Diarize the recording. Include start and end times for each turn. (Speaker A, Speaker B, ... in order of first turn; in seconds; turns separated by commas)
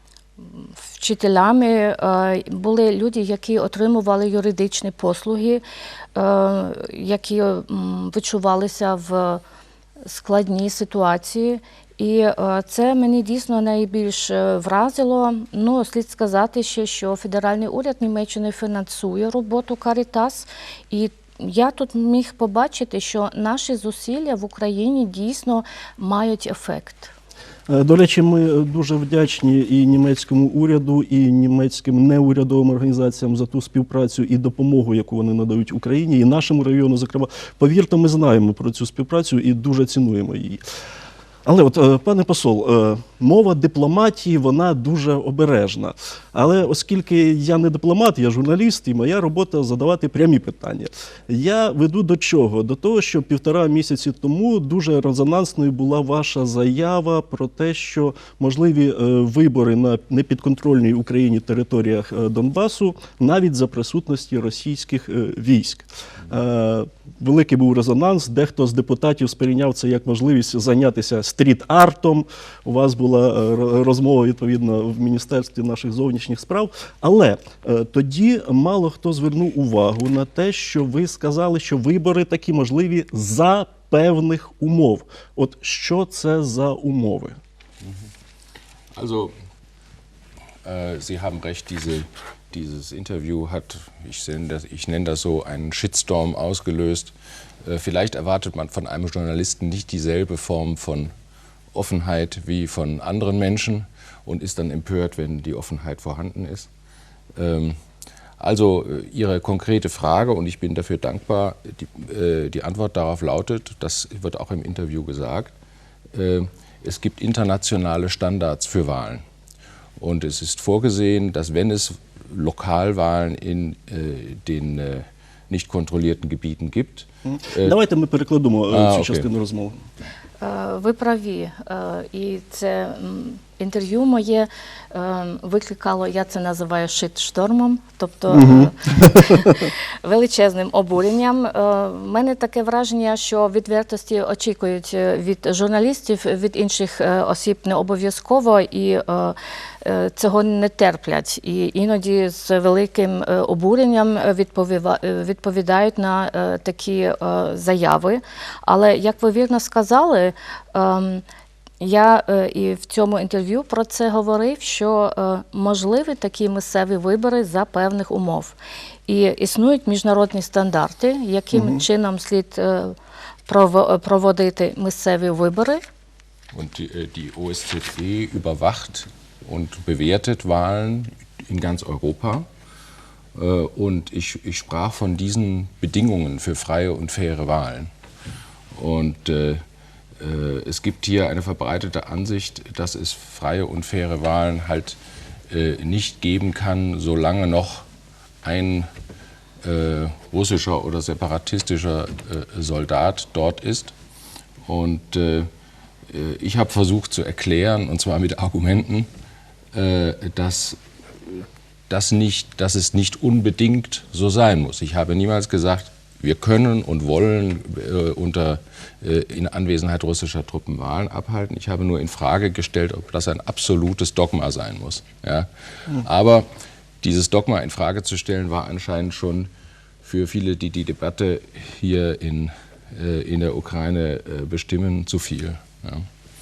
Speaker A: 0.4-5.6, Speaker A: 6.1-9.4, Speaker A: 10.0-27.1, Speaker B: 27.7-40.6, Speaker B: 41.5-87.4, Speaker C: 88.9-89.3, Speaker C: 90.6-97.1, Speaker C: 97.6-101.1, Speaker C: 101.7-106.7, Speaker C: 107.4-107.8, Speaker C: 108.4-115.5, Speaker C: 116.1-119.2, Speaker C: 120.0-127.1, Speaker B: 127.3-129.8, Speaker A: 130.4-161.2, Speaker B: 138.3-139.5, Speaker A: 161.8-172.9, Speaker B: 171.5-171.8, Speaker A: 173.5-175.8, Speaker C: 176.5-182.4, Speaker C: 183.3-187.9, Speaker C: 188.7-189.6, Speaker C: 190.2-195.0, Speaker C: 195.5-197.9, Speaker C: 198.4-198.9, Speaker C: 199.6-203.9, Speaker C: 204.7-205.4, Speaker C: 206.1-209.1, Speaker C: 209.7-225.5, Speaker C: 226.1-226.4, Speaker C: 227.0-229.5, Speaker C: 230.0-236.1